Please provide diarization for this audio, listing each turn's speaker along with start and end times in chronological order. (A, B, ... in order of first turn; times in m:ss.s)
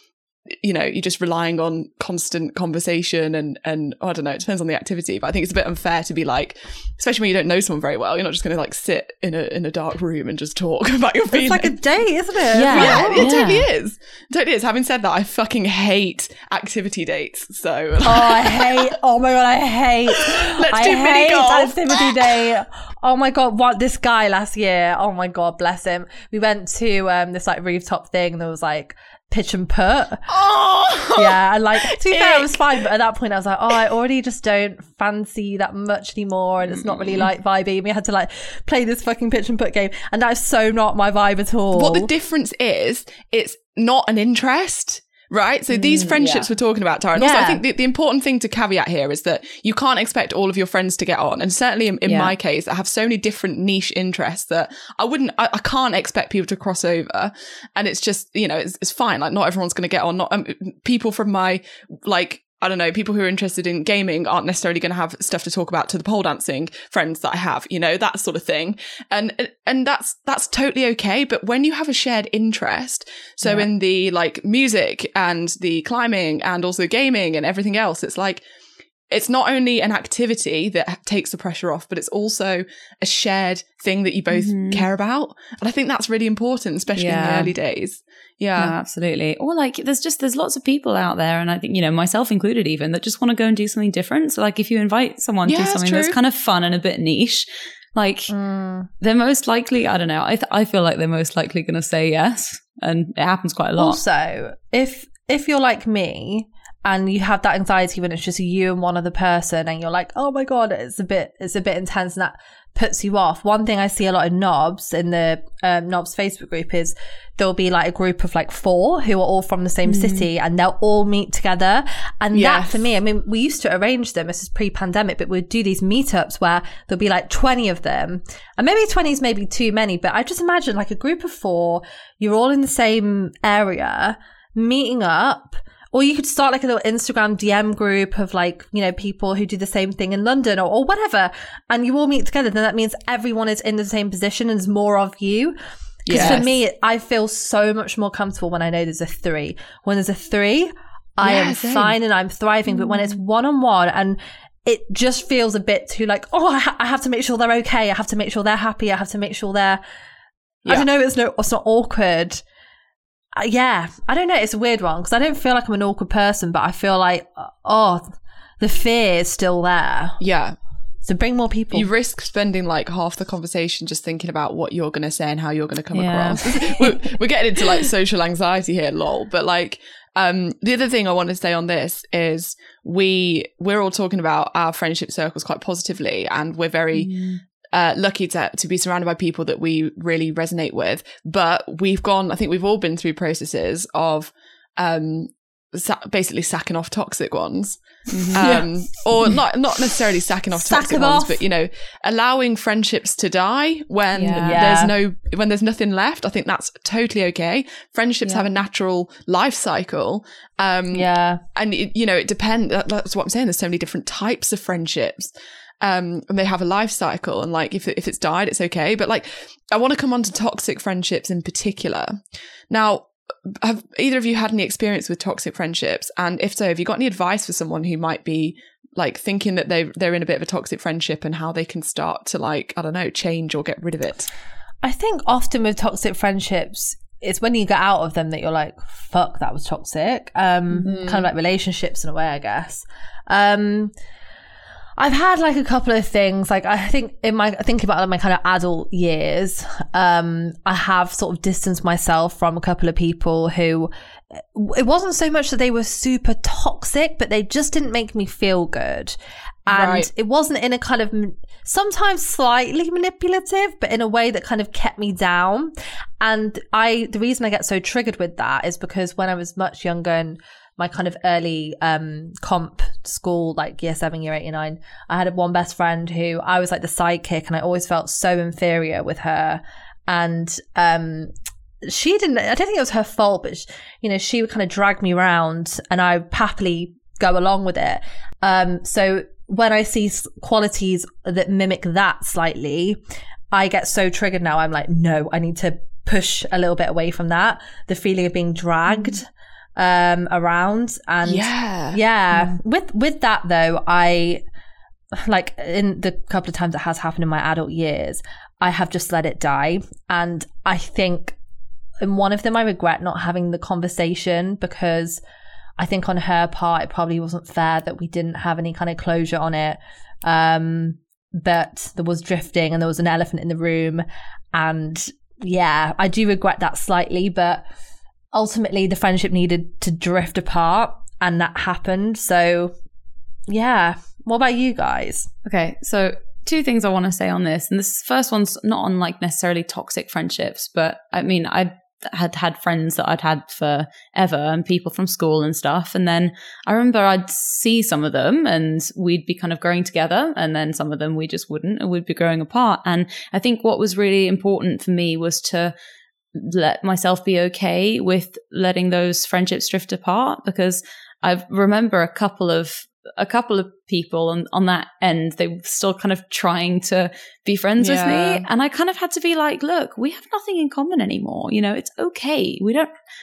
0:00.5-0:11.8 A
0:11.3-0:13.4 B
0:12.5-0:13.7 C
0:12.6-0:18.9 A
0:18.0-0:30.3 B
0:20.2-0:22.5 A
0:30.3-0:32.6 A
0:31.1-0:42.1 B
0:36.7-0:37.2 C
0:41.7-1:18.4 A
0:45.7-0:46.5 C
0:47.1-0:47.6 B
0:52.0-0:52.3 C
1:19.1-1:28.7 A
1:24.3-1:24.9 C
1:27.0-1:27.5 C
1:28.6-1:38.3 C
1:35.4-1:36.2 A
1:38.3-1:38.9 B
1:39.0-1:44.0 C
1:43.8-2:25.6 B
1:59.8-2:00.3 C
2:02.3-2:02.8 A
2:26.0-2:26.5 A
2:26.1-2:39.8 B
2:26.1-2:26.4 C
2:31.2-2:31.9 A
2:32.7-2:33.1 C
2:40.7-2:42.4 B
2:43.4-2:50.2 B
2:50.2-2:50.6 A
2:51.0-2:51.9 B
2:51.7-3:07.2 A
2:55.9-2:57.0 C
3:06.9-3:07.4 C
3:07.7-3:17.8 A
3:18.1-3:18.6 C
3:18.3-3:42.2 A
3:18.4-3:18.6 B
3:20.5-3:21.4 B
3:24.2-3:24.6 C
3:24.2-3:24.9 B
3:30.9-3:31.4 B
3:42.7-3:54.3 A
3:54.8-4:03.9 B
4:00.8-4:01.3 A
4:05.0-4:19.2 B
4:19.7-4:20.1 A
4:19.7-4:41.3 B
4:41.8-4:53.0 B
4:53.5-5:04.4 B
5:01.2-5:02.0 A
5:05.1-5:11.4 B
5:12.0-5:15.2 B
5:15.8-5:27.6 B
5:28.3-5:32.7 B
5:33.5-5:35.3 B
5:35.4-5:55.7 C
5:56.3-6:12.9 C
6:07.8-6:08.4 A